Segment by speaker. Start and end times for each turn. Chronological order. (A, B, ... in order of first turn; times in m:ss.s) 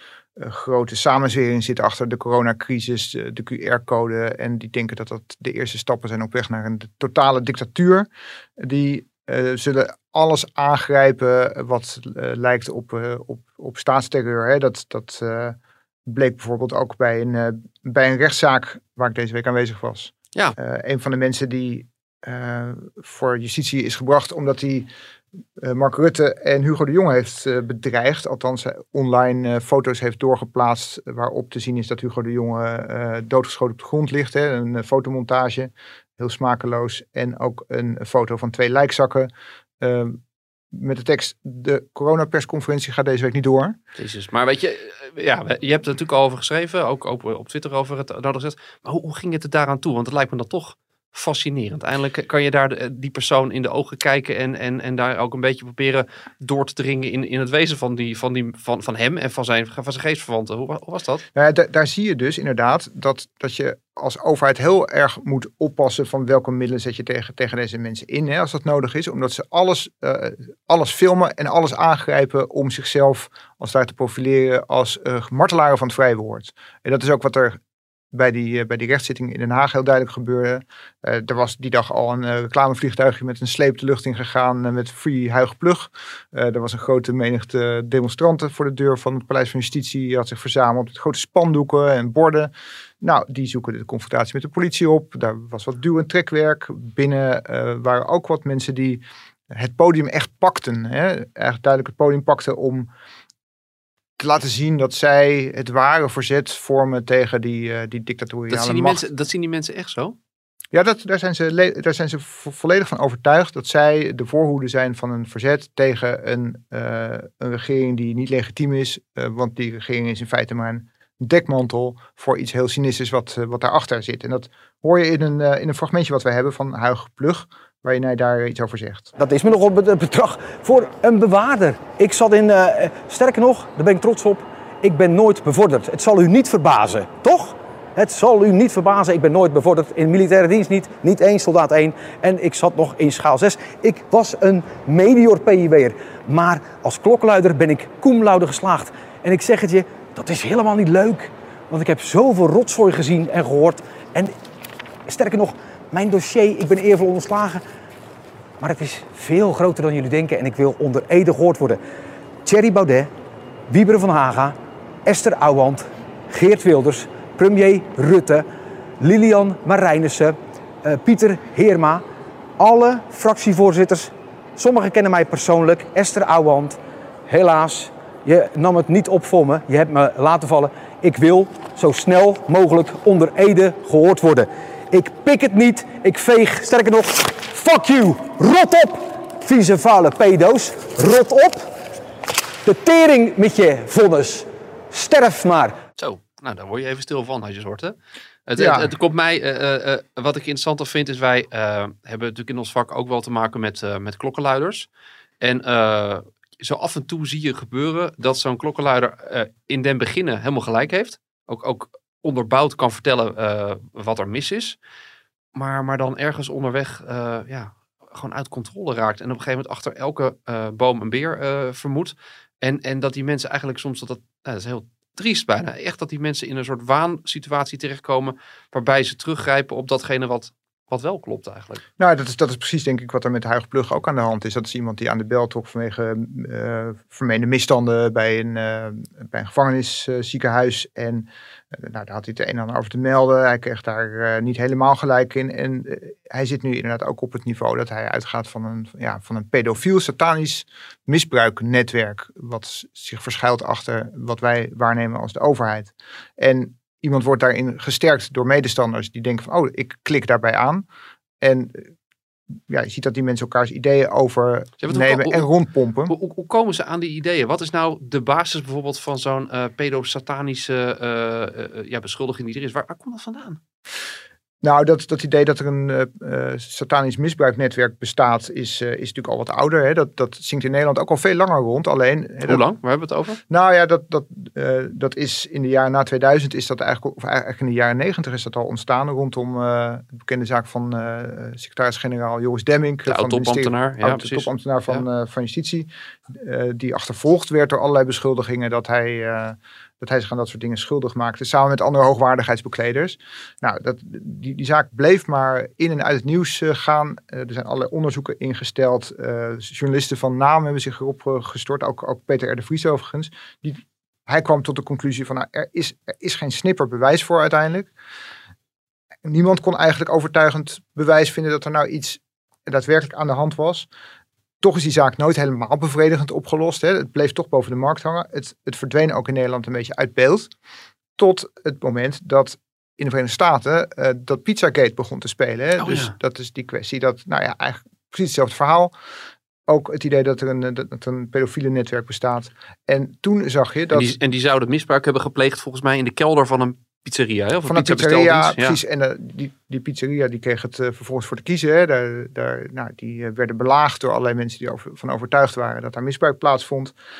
0:00.4-0:08.1 A
0:08.6-0:24.9 A
0:25.6-0:40.2 A
0:40.7-0:43.8 A
0:44.0-1:01.2 B
1:01.4-1:17.6 A
1:18.1-1:42.9 A
1:44.2-1:49.0 A
1:48.5-1:50.2 B
1:50.7-2:09.1 A
2:09.2-2:34.3 C
2:35.1-2:37.6 C
2:38.6-2:41.8 C
2:42.4-2:43.1 C
2:43.7-2:48.4 C
2:49.0-2:52.0 C
2:52.6-3:11.7 C
3:12.6-3:15.8 C
3:16.0-3:18.0 B
3:18.5-3:24.9 B
3:18.6-3:18.9 A
3:25.4-3:34.8 B
3:35.6-3:51.8 B
3:52.0-4:20.8 A
4:21.4-4:21.9 A
4:22.7-4:26.1 A
4:24.8-4:25.5 B
4:26.1-4:33.6 B
4:34.6-4:42.6 A
4:42.4-4:43.4 B
4:43.5-5:17.9 A
4:53.1-4:55.0 B
5:19.2-5:23.9 A
5:24.6-5:30.5 A
5:31.2-5:38.9 A
5:35.8-5:36.1 B
5:39.7-5:44.1 A
5:43.9-5:48.8 B
5:47.7-5:56.9 A